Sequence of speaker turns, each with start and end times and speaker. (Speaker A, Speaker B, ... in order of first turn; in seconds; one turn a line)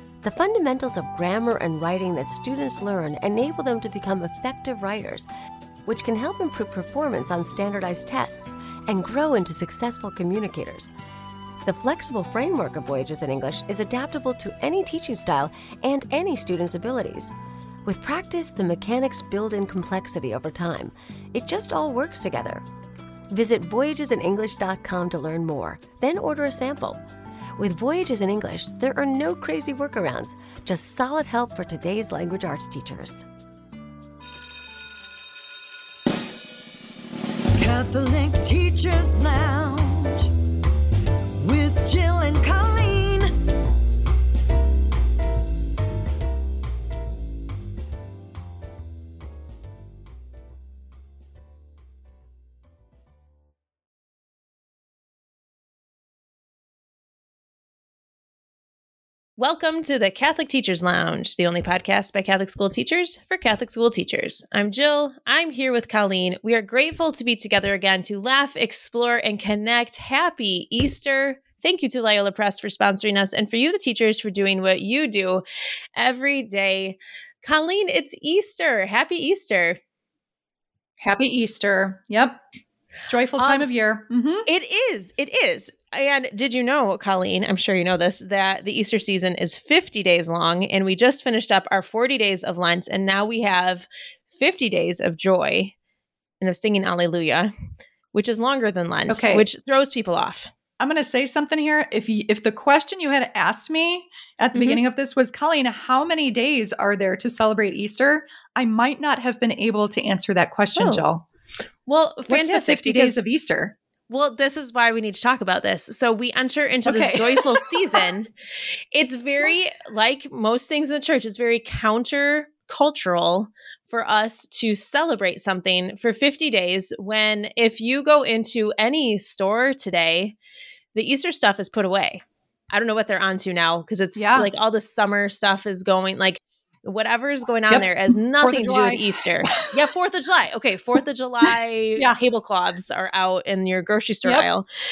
Speaker A: 0.2-5.2
Speaker A: 5.8-10.9
Speaker A: 11.6-17.3
Speaker A: 17.9-22.6
Speaker A: 23.3-27.0
Speaker A: 27.6-33.2
Speaker B: 37.5-40.3
Speaker B: 41.3-43.4
Speaker C: 59.4-75.4
Speaker C: 76.0-79.8
Speaker D: 81.0-82.4
Speaker D: 83.1-84.5
Speaker C: 83.4-83.7
Speaker C: 84.5-95.7
Speaker C: 96.4-97.5
Speaker C: 98.1-100.5
Speaker D: 99.1-99.4
Speaker D: 100.8-111.2
Speaker C: 104.5-104.8
Speaker C: 110.8-111.0
Speaker C: 111.9-113.2
Speaker D: 112.3-113.7
Speaker C: 114.1-118.3
Speaker D: 116.8-118.1
Speaker C: 118.9-130.3
Speaker C: 130.9-144.6
Speaker D: 134.2-134.5
Speaker D: 138.4-139.7